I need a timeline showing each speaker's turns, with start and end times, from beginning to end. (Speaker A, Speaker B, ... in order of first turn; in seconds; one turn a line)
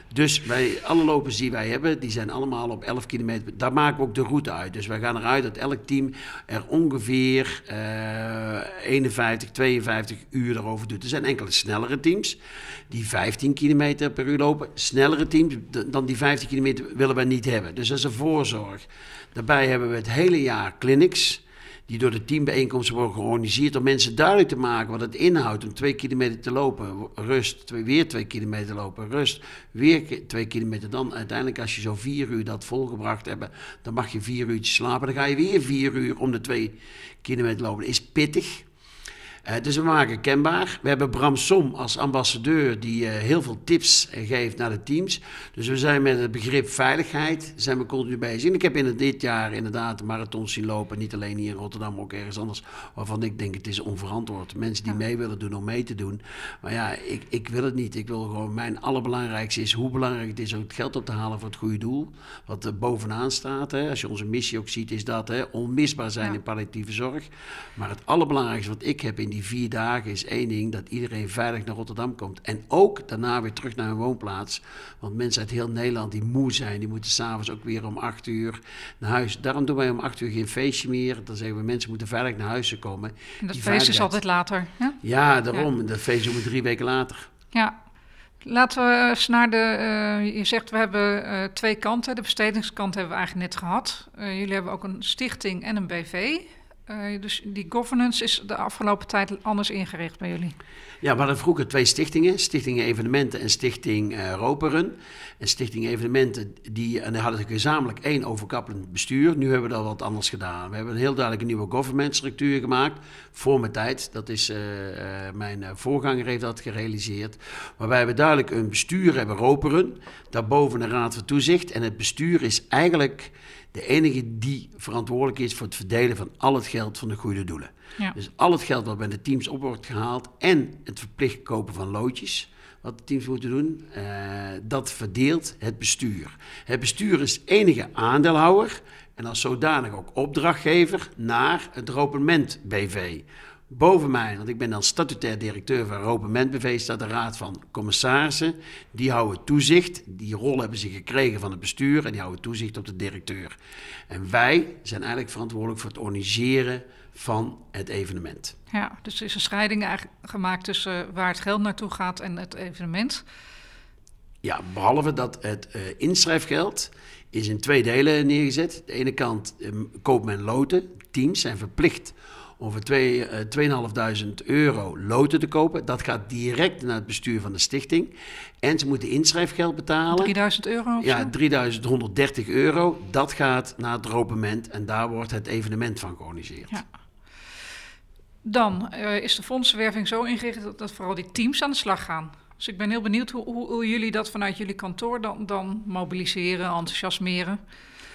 Speaker A: 0.1-12.4
Speaker A: 12.9-38.7
Speaker A: 39.5-84.1
Speaker B: 83.4-85.0
Speaker A: 85.0-87.3
Speaker B: 88.4-100.5
Speaker A: 101.0-153.5
Speaker A: 154.1-158.6
Speaker B: 158.7-163.2
Speaker A: 164.4-180.3
Speaker B: 180.1-181.3
Speaker A: 181.0-186.8
Speaker B: 188.4-197.6